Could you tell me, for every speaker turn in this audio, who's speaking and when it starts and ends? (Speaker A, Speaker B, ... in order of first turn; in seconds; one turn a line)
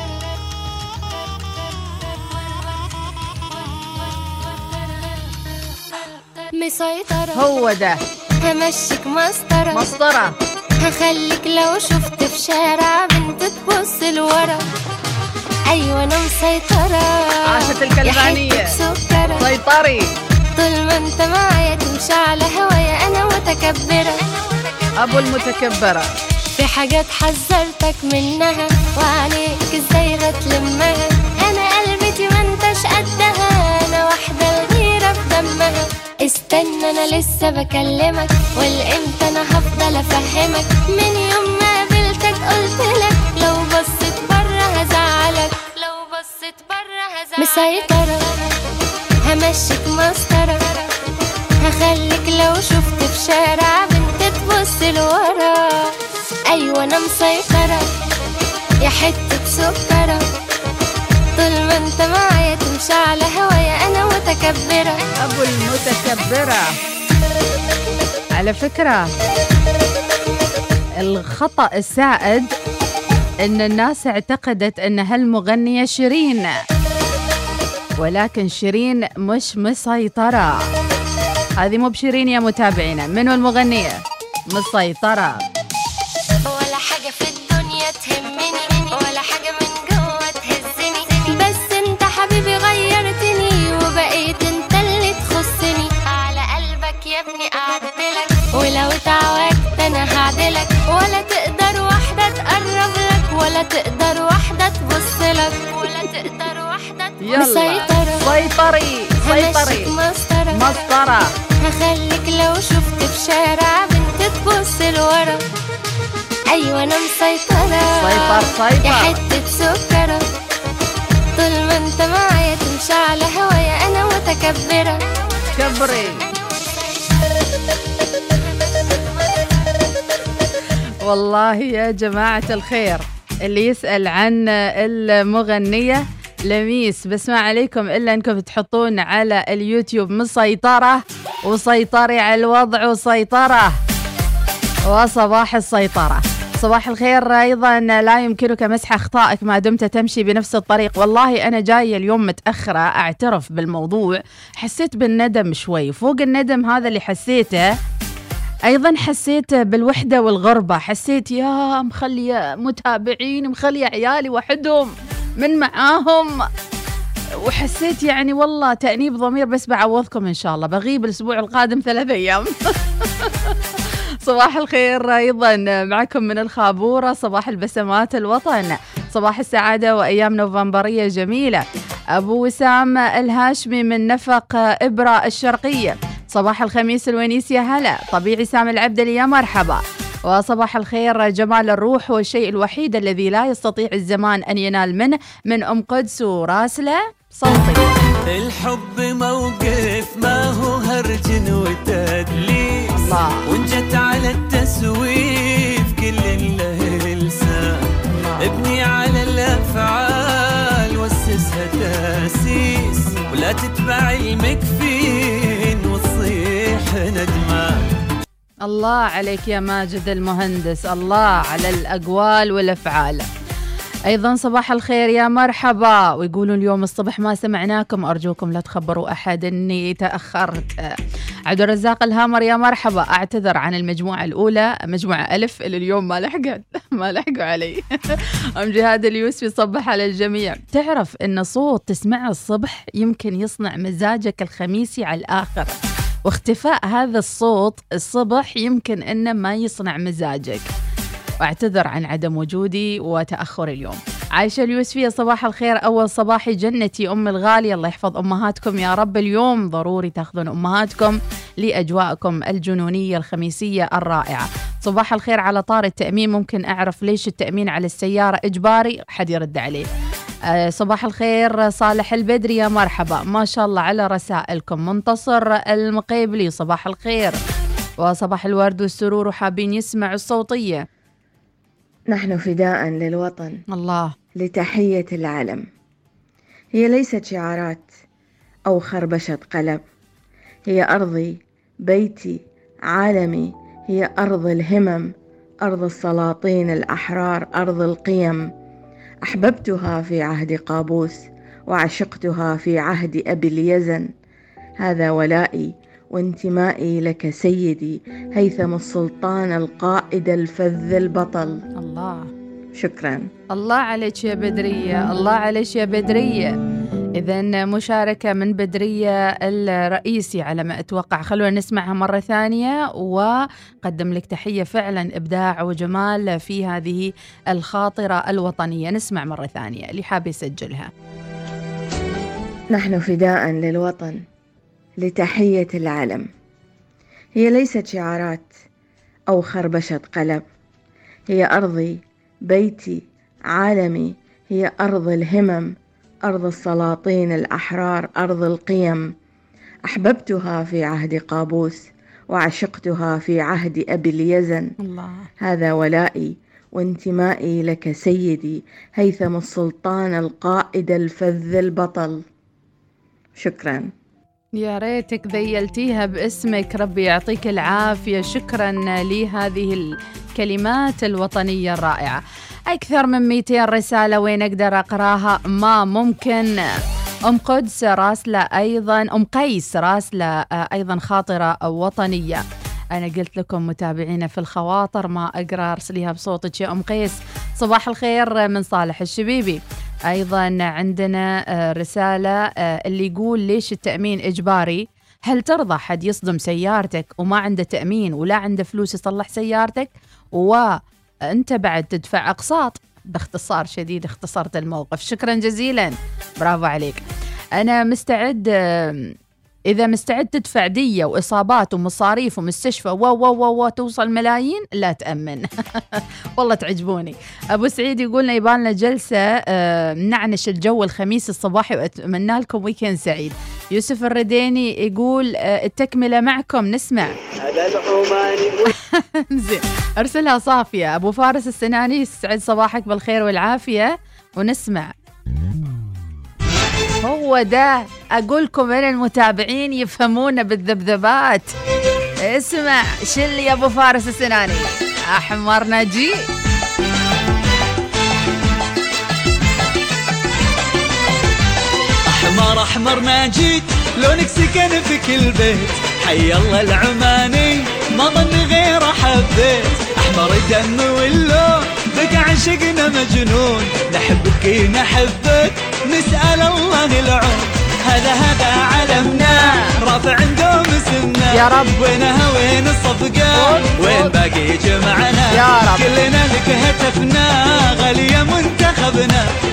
Speaker A: 6.6-7.5
Speaker B: 7.3-7.9
Speaker A: 8.4-9.9
Speaker B: 9.7-10.3
Speaker A: 10.8-14.6
Speaker A: 15.7-19.5
Speaker B: 17.5-18.7
Speaker B: 19.4-20.1
Speaker A: 20.6-24.2
Speaker B: 25.0-26.1
Speaker A: 26.6-48.4
Speaker A: 49.2-50.6
Speaker A: 51.6-55.6
Speaker A: 56.5-57.8
Speaker A: 58.8-60.2
Speaker A: 61.4-65.0
Speaker B: 65.2-66.7
Speaker B: 68.4-69.1
Speaker B: 71.0-72.5
Speaker B: 73.4-76.5
Speaker B: 78.0-80.5
Speaker B: 81.6-84.0
Speaker B: 84.5-85.4
Speaker A: 86.5-108.3
Speaker B: 107.2-109.9
Speaker A: 109.2-110.7
Speaker B: 110.5-111.2
Speaker A: 111.6-115.4
Speaker A: 116.5-120.2
Speaker B: 118.0-119.2
Speaker A: 121.3-125.0
Speaker B: 125.5-126.2
Speaker B: 131.0-143.8
Speaker B: 144.9-157.7
Speaker B: 158.7-166.4
Speaker B: 167.4-172.5
Speaker B: 173.0-173.5
Speaker B: 174.2-181.6
Speaker B: 182.2-197.8
Speaker C: 198.3-207.9
Speaker B: 203.0-203.5
Speaker B: 208.1-208.5
Speaker C: 208.4-217.8
Speaker B: 218.6-223.2
Speaker B: 224.1-230.9
Speaker B: 231.5-237.8
Speaker B: 238.6-245.7
Speaker B: 246.2-250.7
Speaker B: 251.4-269.9
Speaker B: 270.5-277.4
Speaker B: 278.0-280.8
Speaker D: 282.1-283.5
Speaker B: 283.7-284.1
Speaker D: 284.4-285.6
Speaker D: 286.7-287.9
Speaker D: 288.7-289.8
Speaker D: 290.7-292.4
Speaker D: 292.9-295.1
Speaker D: 295.6-298.4
Speaker D: 299.2-301.2
Speaker D: 301.7-304.1
Speaker D: 304.8-311.6
Speaker B: 311.8-312.3
Speaker D: 312.8-313.3
Speaker B: 313.5-316.5
Speaker B: 317.2-323.3
Speaker B: 323.8-330.9
Speaker D: 332.7-334.2
Speaker D: 335.0-336.3
Speaker D: 337.4-338.5
Speaker D: 339.3-340.4
Speaker D: 341.3-343.0
Speaker D: 343.5-345.7
Speaker D: 346.3-349.0
Speaker D: 349.9-351.8
Speaker D: 352.3-354.7
Speaker B: 354.8-355.3
Speaker D: 355.4-362.2
Speaker D: 363.4-363.9
Speaker B: 364.6-376.6
Speaker B: 377.3-382.4
Speaker B: 382.9-400.8
Speaker B: 401.3-407.0
Speaker B: 407.6-409.1
Speaker B: 409.7-427.1
Speaker B: 429.0-434.9
Speaker B: 437.0-441.5
Speaker B: 442.2-446.2
Speaker E: 452.1-479.2
Speaker B: 468.9-469.7
Speaker B: 471.3-471.8
Speaker B: 473.3-474.1
Speaker B: 475.3-475.9